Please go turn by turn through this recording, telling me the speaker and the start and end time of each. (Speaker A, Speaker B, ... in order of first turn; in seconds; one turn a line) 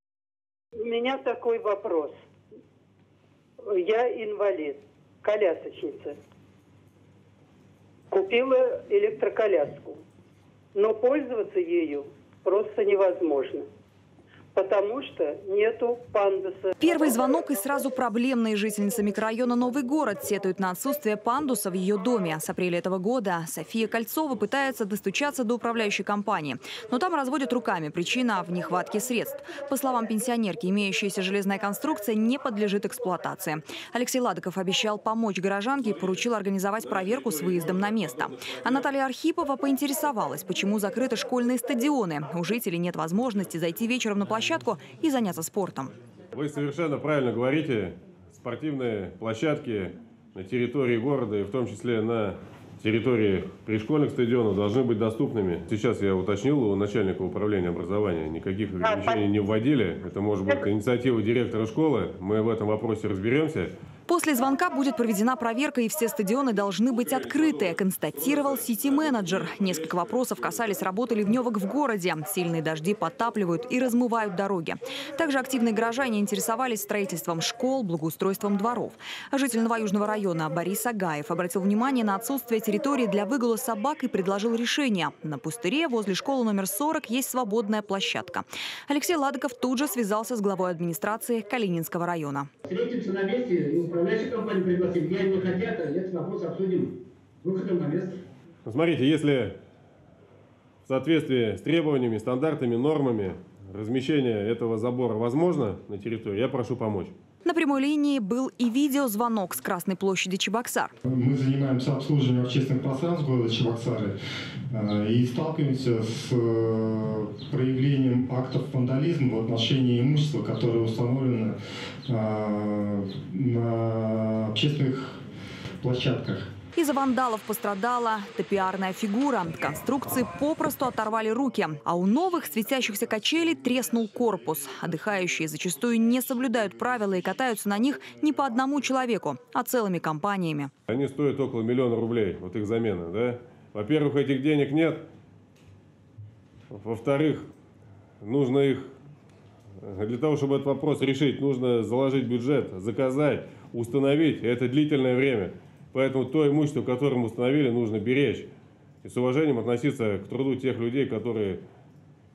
Speaker A: 0.8-2.1
Speaker A: 3.7-6.2
Speaker A: 8.1-10.0
Speaker A: 10.7-13.7
Speaker A: 14.6-16.8
Speaker B: 16.8-46.0
Speaker C: 46.3-63.7
Speaker A: 58.8-59.2
Speaker B: 64.1-92.5
Speaker D: 92.7-98.2
Speaker C: 98.7-99.6
Speaker C: 100.9-107.1
Speaker B: 107.5-110.9
Speaker E: 111.0-114.2
Speaker E: 114.7-125.2
Speaker E: 125.8-126.5
Speaker B: 126.8-140.7
Speaker C: 140.9-145.1
Speaker C: 146.7-147.5
Speaker C: 148.2-148.9
Speaker C: 149.8-158.5
Speaker C: 159.0-161.6